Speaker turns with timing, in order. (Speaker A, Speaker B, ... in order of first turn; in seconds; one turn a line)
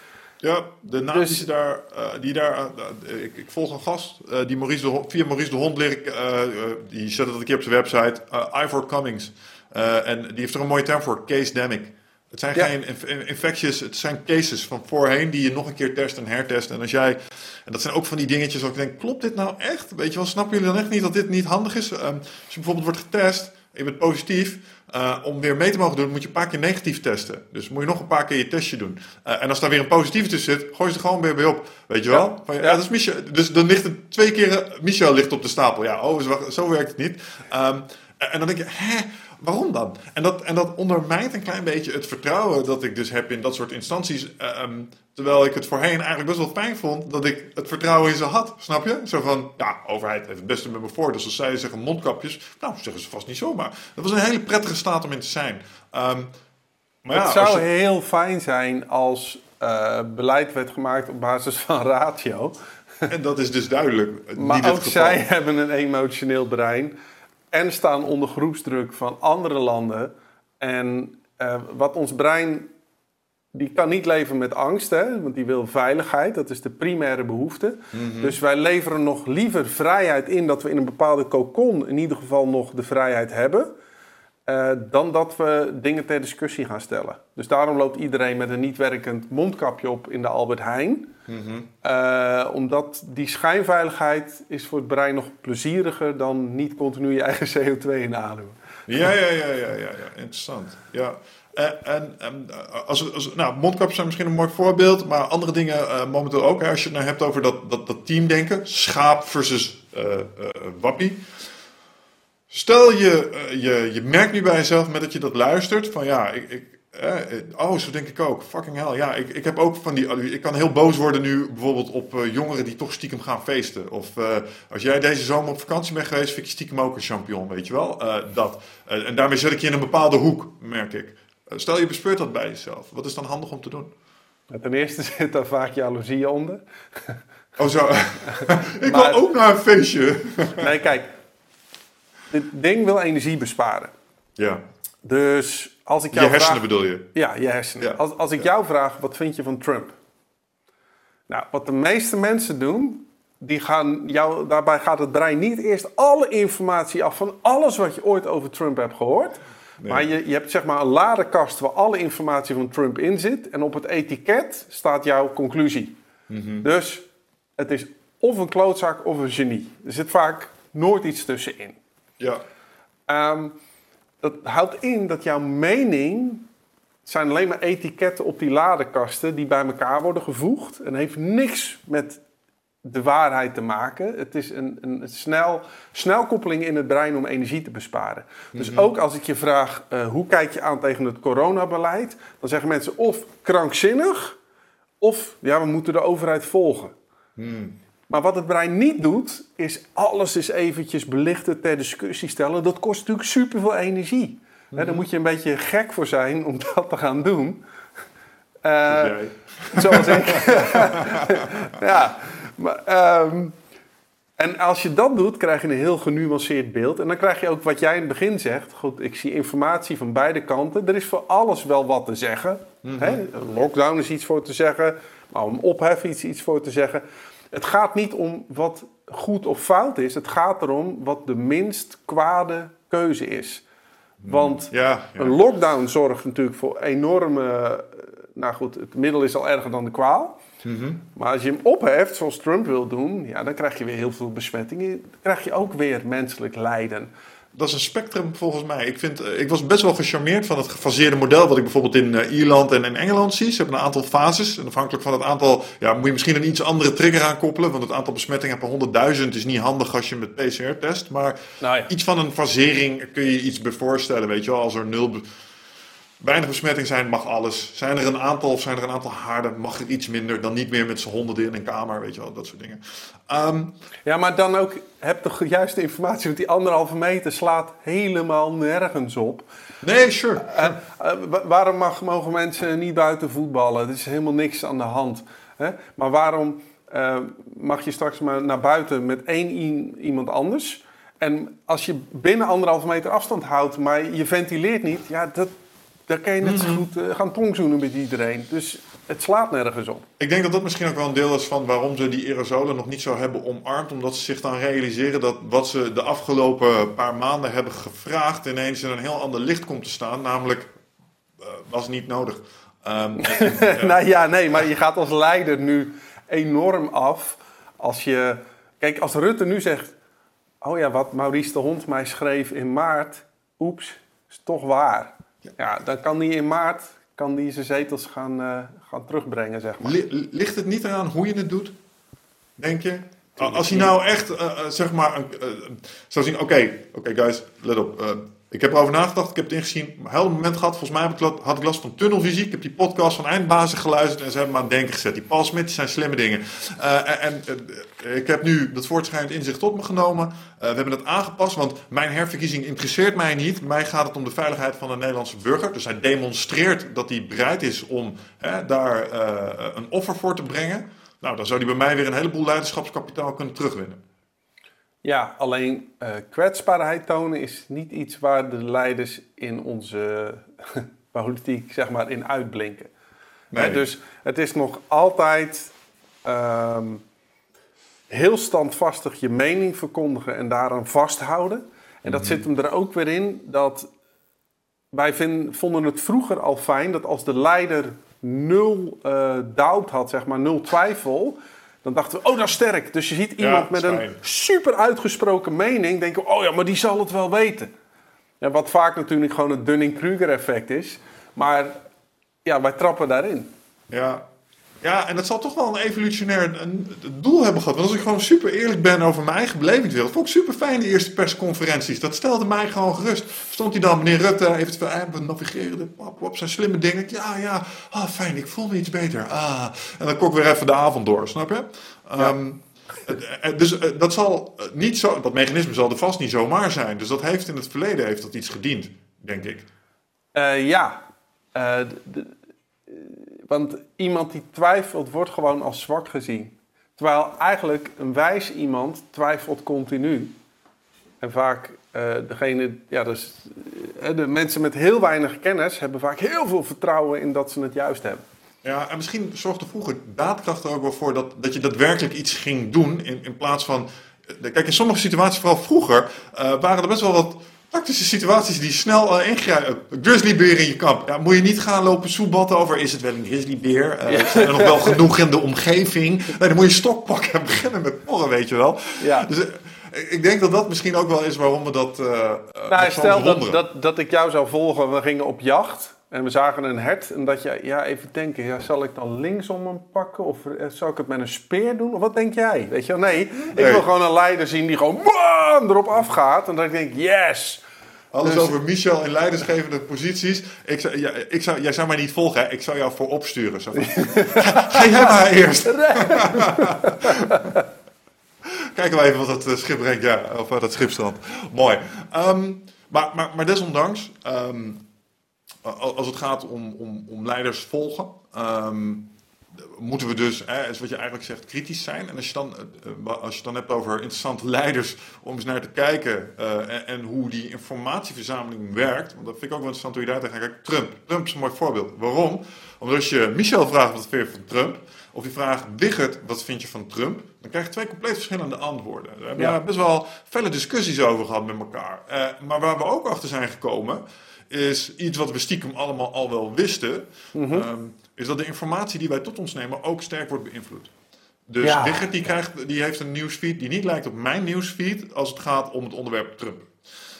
Speaker A: 0.4-56.3
Speaker B: 1.1-1.4
Speaker B: 32.1-32.8
Speaker A: 57.0-57.6
Speaker B: 57.1-62.5
Speaker A: 63.1-65.2
Speaker B: 64.4-66.9
Speaker B: 67.5-72.7
Speaker B: 73.5-83.7
Speaker A: 77.9-78.4
Speaker B: 84.5-91.1
Speaker A: 91.3-91.7
Speaker B: 91.8-98.6
Speaker A: 98.9-111.2
Speaker A: 112.5-133.9
Speaker B: 134.5-137.2
Speaker A: 137.6-140.7
Speaker B: 138.3-139.2
Speaker B: 140.6-141.1
Speaker B: 142.3-143.9
Speaker A: 144.4-144.6
Speaker B: 145.1-150.0
Speaker A: 146.1-147.1
Speaker B: 151.3-165.9
Speaker A: 159.8-160.1
Speaker A: 166.3-166.7
Speaker B: 166.6-167.1
Speaker B: 167.6-171.8
Speaker B: 173.1-173.6
Speaker B: 174.2-176.5
Speaker B: 177.1-182.2
Speaker B: 182.8-194.4
Speaker A: 188.5-188.9
Speaker B: 195.0-196.9
Speaker A: 197.4-197.8
Speaker B: 198.1-207.6
Speaker A: 204.7-205.0
Speaker B: 208.6-209.2
Speaker A: 208.9-211.6
Speaker B: 209.7-213.6
Speaker B: 214.4-233.6
Speaker A: 222.8-223.2
Speaker A: 234.2-235.4
Speaker B: 234.3-240.4
Speaker A: 240.6-241.0
Speaker B: 241.1-247.1
Speaker A: 247.6-265.2
Speaker B: 261.6-261.9
Speaker A: 266.2-273.7
Speaker B: 274.1-279.5
Speaker A: 279.8-280.8
Speaker B: 280.4-295.5
Speaker B: 296.1-300.1
Speaker A: 296.4-296.8
Speaker A: 300.2-310.7
Speaker A: 311.4-314.0
Speaker B: 313.2-319.9
Speaker B: 320.6-330.0
Speaker A: 329.8-331.8
Speaker A: 332.6-364.0
Speaker B: 333.4-333.9
Speaker B: 365.0-372.9
Speaker A: 373.5-373.8
Speaker B: 373.5-375.7
Speaker B: 376.2-377.0
Speaker B: 378.1-383.9
Speaker A: 382.1-382.4
Speaker B: 384.9-397.7
Speaker A: 393.4-394.2
Speaker B: 398.4-401.8
Speaker B: 402.4-403.5
Speaker A: 403.9-404.2
Speaker A: 404.8-429.7
Speaker B: 430.3-431.0
Speaker B: 431.5-432.3
Speaker B: 432.9-440.3
Speaker B: 441.2-448.2
Speaker A: 448.6-473.6
Speaker B: 464.1-465.0
Speaker B: 469.0-469.3
Speaker B: 472.7-487.6
Speaker A: 483.4-483.8
Speaker A: 488.1-497.6
Speaker B: 488.2-488.5
Speaker B: 493.8-495.1
Speaker B: 495.7-497.6
Speaker A: 498.7-504.8
Speaker A: 505.6-540.9
Speaker B: 537.3-537.6
Speaker A: 541.5-546.7
Speaker B: 541.6-542.0